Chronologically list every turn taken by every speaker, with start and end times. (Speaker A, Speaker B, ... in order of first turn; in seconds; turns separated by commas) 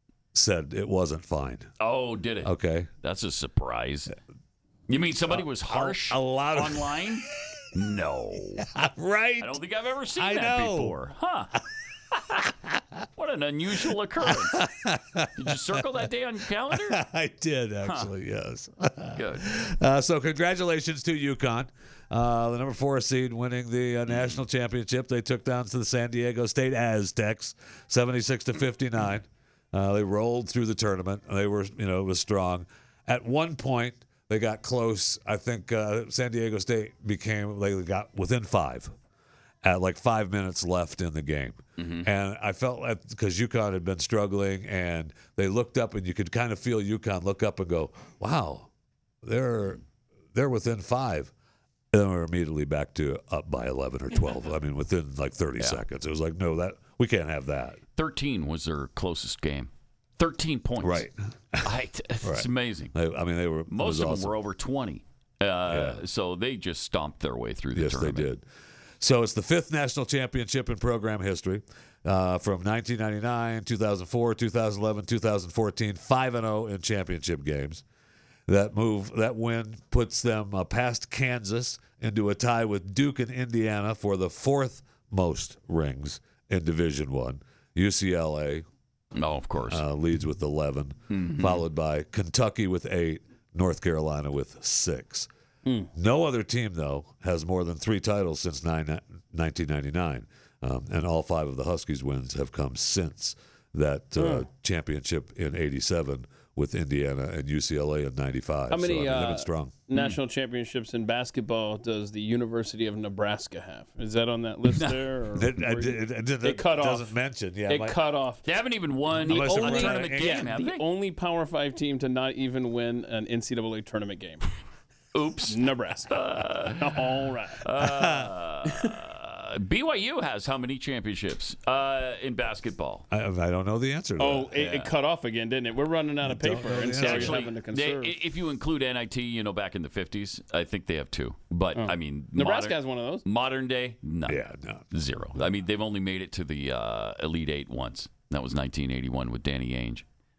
Speaker A: 0.3-1.7, Speaker B: 1.8-4.1, Speaker A: 2.4-2.9, Speaker B: 4.9-8.7, Speaker A: 5.2-7.2, Speaker A: 8.7-9.6, Speaker B: 9.4-11.6, Speaker A: 10.1-10.9, Speaker B: 12.1-12.4, Speaker A: 12.4-12.8, Speaker B: 13.2-14.7, Speaker A: 14.2-16.1, Speaker B: 15.4-17.0, Speaker A: 16.7-38.9, Speaker B: 17.8-18.1, Speaker B: 19.1-19.5, Speaker B: 24.1-24.4, Speaker A: 39.6-48.7, Speaker B: 41.8-42.1, Speaker A: 49.2-49.8, Speaker A: 50.3-51.3, Speaker A: 51.9-57.8, Speaker B: 58.0-61.1, Speaker A: 60.8-61.7, Speaker B: 61.6-62.9, Speaker A: 62.2-64.3, Speaker B: 63.7-68.3, Speaker A: 65.7-66.0, Speaker A: 67.7-68.5, Speaker A: 69.0-77.8, Speaker A: 78.5-88.7, Speaker B: 89.1-89.8, Speaker A: 89.6-95.3, Speaker B: 91.1-91.6, Speaker A: 96.0-109.8, Speaker C: 104.2-104.5, Speaker C: 108.7-117.1, Speaker A: 115.3-118.0, Speaker C: 117.7-118.5, Speaker B: 118.5-120.9, Speaker C: 119.2-124.5, Speaker A: 119.2-120.5, Speaker B: 125.1-127.0, Speaker C: 125.5-127.7, Speaker B: 127.6-133.1, Speaker A: 127.8-128.3, Speaker A: 133.1-134.5, Speaker C: 134.2-138.2, Speaker B: 134.6-134.9, Speaker A: 136.2-137.5, Speaker B: 136.7-144.4, Speaker C: 141.7-143.2, Speaker A: 144.3-144.9, Speaker B: 144.9-150.1